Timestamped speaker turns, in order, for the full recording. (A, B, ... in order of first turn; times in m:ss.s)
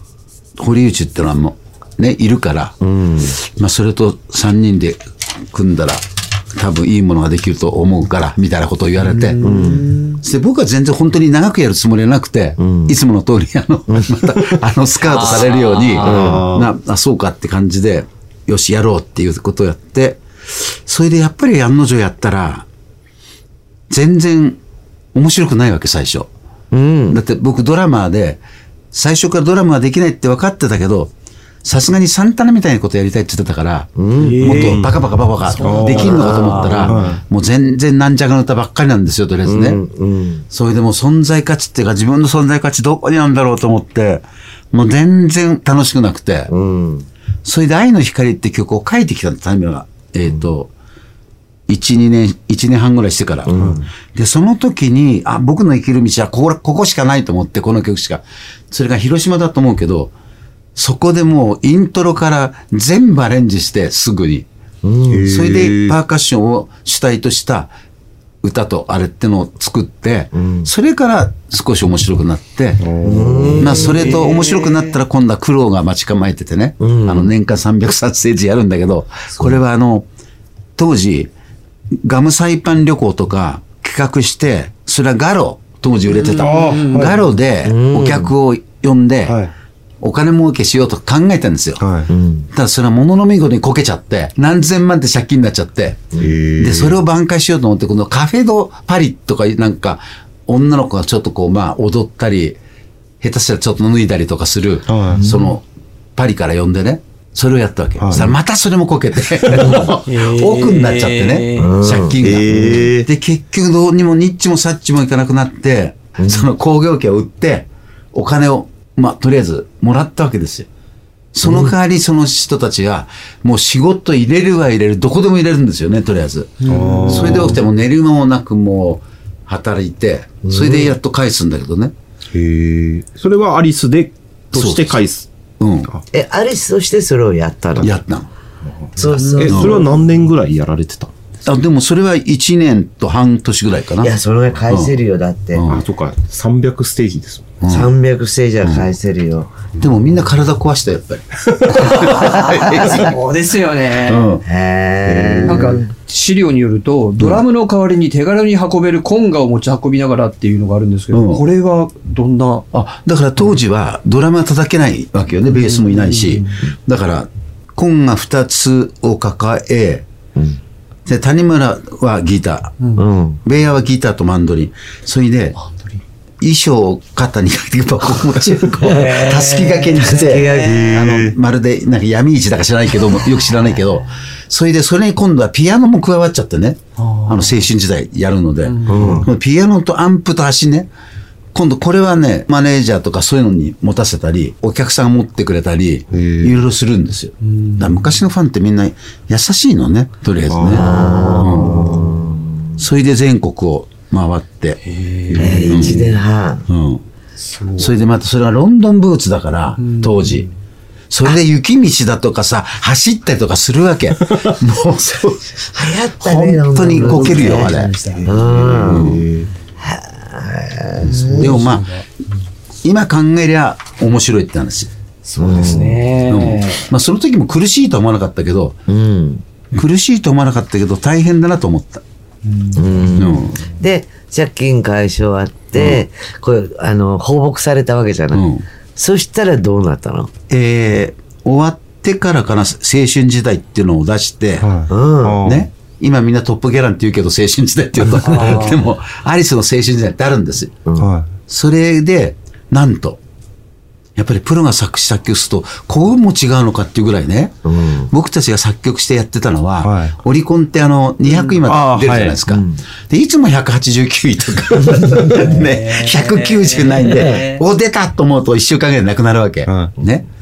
0:00.6-0:02.8 A
0:02.8-0:03.4 B
0:03.3-0:09.5 A
0:09.0-0:10.2 C
0:09.4-0:09.9 B
0:10.2-0:22.7 A
0:12.6-0:13.0 B
0:13.9-0:14.6 B
0:15.0-0:16.2 C
0:16.0-0:16.7 D
0:16.1-0:16.4 B
0:23.9-0:24.6 A
0:25.2-0:26.3 A
0:26.7-0:27.2 B
0:27.1-0:31.1 A
0:31.6-0:39.8 A
0:34.0-0:34.5 B
0:34.2-0:34.8 C
0:34.6-0:34.9 D
0:35.5-0:37.0 C
0:35.6-0:37.2 D
0:39.4-0:40.4 B
0:40.5-0:46.5 A
0:46.5-0:47.1 B
0:47.4-0:50.7 A
0:51.7-1:00.1 A
0:53.5-0:53.8 B
1:00.8-1:04.5 A
1:04.8-1:05.3 B
1:05.1-1:06.0 D
1:05.3-1:07.7 A
1:08.4-1:12.9 A
1:10.3-1:10.7 B
1:12.8-1:13.8 D
1:13.0-1:14.4 B
1:13.6-1:20.1 A
1:16.8-1:17.3 B
1:20.8-1:21.3 A
1:22.0-1:29.4 A
1:26.1-1:27.1 C
1:26.4-1:27.2 D
1:27.6-1:28.3 B
1:29.3-1:29.5 D
1:30.0-1:31.8 A
1:31.8-1:32.1 D
1:32.1-1:32.5 B
1:32.5-1:42.6 A
1:36.2-1:37.0 D
1:43.2-1:45.6 A
1:44.9-1:45.3 D
1:45.2-1:45.6 B
1:46.2-2:00.7 A
1:48.0-1:48.4 D
1:49.6-1:49.9 B
1:50.0-1:51.8 C
1:51.6-1:52.4 B
1:52.2-1:53.1 D
1:56.2-1:56.5 B
2:01.3-2:11.9 A
2:01.4-2:01.8 B
2:06.6-2:07.6 C
2:06.7-2:07.6 D
2:10.4-2:11.0 B
2:12.3-2:15.3 D
2:14.5-2:15.0 A
2:15.6-2:15.9 A
2:16.1-2:18.0 B
2:17.8-2:18.3 A
2:18.7-2:21.1 D
2:19.0-2:19.9 B
2:19.1-2:19.6 C
2:19.5-2:19.8 A
2:21.5-2:24.1 A
2:24.0-2:25.6 B
2:24.7-2:25.0 A
2:25.5-2:25.8 A
2:25.7-2:27.5 D
2:27.6-2:27.9 A
2:27.7-2:29.5 B
2:28.6-2:28.9 A
2:29.8-2:33.2 A
2:31.7-2:34.3 C
2:34.0-2:34.4 A
2:34.4-2:35.9 B
2:35.0-2:35.8 D
2:35.5-2:42.7 C
2:37.2-2:37.4 A
2:41.1-2:41.4 A
2:42.7-2:50.1 A
2:45.5-2:46.6 C
2:51.1-2:52.8 A
2:53.0-2:53.4 B
2:53.4-2:55.6 A
2:55.6-2:56.0 C
2:56.4-3:10.9 A
2:58.8-3:00.7 C
3:00.0-3:00.9 B
3:00.6-3:01.4 D
3:07.0-3:07.6 C
3:08.6-3:09.2 C
3:08.9-3:09.3 D
3:11.5-3:21.9 A
3:16.1-3:16.6 D
3:17.4-3:18.2 C
3:20.5-3:22.1 D
3:20.6-3:22.8 B
3:20.9-3:22.1 C
3:22.8-3:24.8 A
3:24.8-3:25.9 C
3:25.3-3:26.1 D
3:25.4-3:26.7 B
3:25.4-3:27.1 A
3:27.4-3:27.9 C
3:27.8-3:30.5 A
3:29.8-3:30.5 C
3:31.1-3:35.7 A
3:35.7-3:39.1 B
3:36.2-3:39.2 A
3:36.9-3:38.4 C
3:38.3-3:39.5 D
3:39.8-3:41.6 B
3:41.0-3:42.1 C
3:41.1-3:41.9 A
3:42.8-3:44.9 A
3:45.2-3:46.9 C
3:45.4-3:46.0 B
3:45.5-3:48.8 A
3:48.9-3:49.4 B
3:49.7-3:52.0 A
3:52.5-3:52.8 C
3:52.8-4:00.3 B
3:53.2-3:53.6 A
3:55.8-3:56.0 A
3:58.3-3:58.6 A
4:00.5-4:04.7 A
4:04.6-4:05.7 D
4:04.9-4:05.5 B
4:05.4-4:10.8 A
4:08.0-4:08.4 B
4:08.2-4:08.8 C
4:11.0-4:11.3 D
4:11.5-4:13.2 A
4:14.2-4:30.2 A
4:17.6-4:18.1 B
4:19.8-4:20.2 D
4:21.2-4:21.6 C
4:21.6-4:22.4 D
4:22.5-4:22.8 B
4:24.8-4:25.4 B
4:25.3-4:27.6 C
4:27.1-4:27.4 B
4:29.7-4:29.9 D